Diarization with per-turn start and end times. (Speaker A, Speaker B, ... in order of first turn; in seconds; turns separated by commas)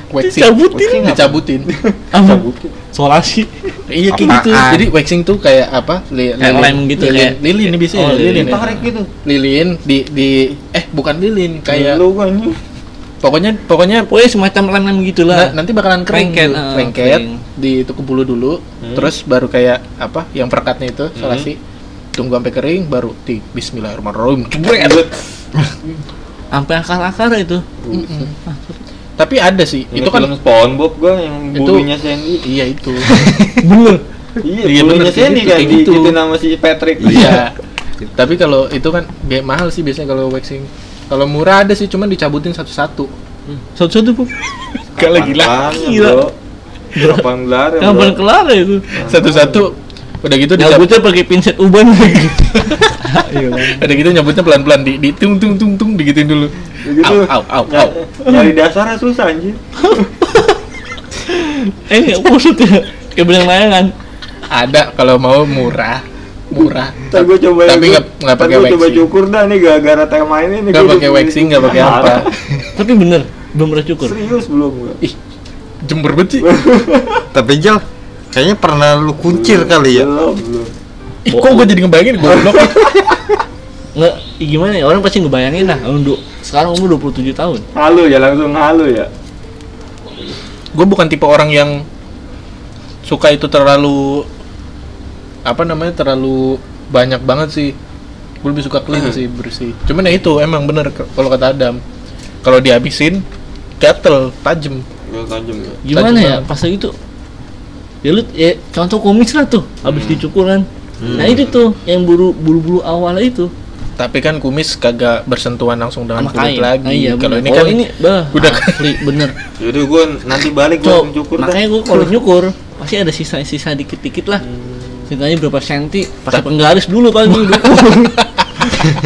Speaker A: 0.1-1.7, Speaker B: 0.2-1.2, Speaker C: 0.7-2.8, Speaker B: 2.1-3.7, Speaker A: 3.9-12.0, Speaker D: 4.1-4.9, Speaker B: 6.4-8.8, Speaker C: 8.2-9.1, Speaker C: 11.7-12.6, Speaker A: 13.2-14.1, Speaker B: 14.1-15.6, Speaker A: 15.3-21.6, Speaker B: 16.1-17.4, Speaker C: 18.8-19.1, Speaker C: 21.2-21.5, Speaker A: 22.2-25.1, Speaker C: 24.6-25.2, Speaker B: 26.5-27.7, Speaker C: 27.8-28.3, Speaker A: 27.9-28.3, Speaker B: 28.5-28.8, Speaker A: 29.2-30.3, Speaker C: 29.9-32.4, Speaker A: 31.6-31.9, Speaker A: 32.4-33.6, Speaker B: 33.6-34.0, Speaker C: 34.4-37.4, Speaker A: 34.6-36.2, Speaker D: 37.0-37.4, Speaker A: 37.1-37.5, Speaker A: 38.2-43.1, Speaker B: 43.8-44.3, Speaker A: 45.0-45.6, Speaker C: 45.0-46.3, Speaker B: 45.7-46.3, Speaker B: 47.0-47.3, Speaker C: 47.0-48.2, Speaker B: 47.8-48.8, Speaker C: 48.9-49.7, Speaker A: 49.1-50.9, Speaker B: 50.6-53.9, Speaker A: 53.8-57.9, Speaker C: 56.8-60.1, Speaker B: 61.3-63.9, Speaker A: 64.5-69.0, Speaker C: 67.1-72.3, Speaker A: 70.7-72.3, Speaker B: 72.8-74.2, Speaker C: 74.0-75.0, Speaker A: 75.8-76.5, Speaker C: 76.4-77.3, Speaker D: 77.3-80.1, Speaker C: 79.2-80.7, Speaker A: 81.3-83.0, Speaker B: 81.3-81.7, Speaker C: 82.3-83.2, Speaker B: 84.0-87.7, Speaker C: 87.8-89.1, Speaker A: 90.7-91.8, Speaker A: 93.0-94.3, Speaker A: 95.5-97.8, Speaker A: 98.4-101.8, Speaker C: 98.9-99.2, Speaker A: 102.4-103.2, Speaker A: 103.8-104.8, Speaker C: 105.1-105.8, Speaker B: 105.8-106.9, Speaker A: 105.9-106.5, Speaker B: 108.0-113.5, Speaker C: 109.8-110.2, Speaker C: 111.0-111.5, Speaker A: 114.0-118.8, Speaker B: 116.2-119.3, Speaker C: 119.6-121.6, Speaker B: 120.8-124.4, Speaker C: 124.4-125.1, Speaker B: 125.1-128.2, Speaker A: 127.3-128.7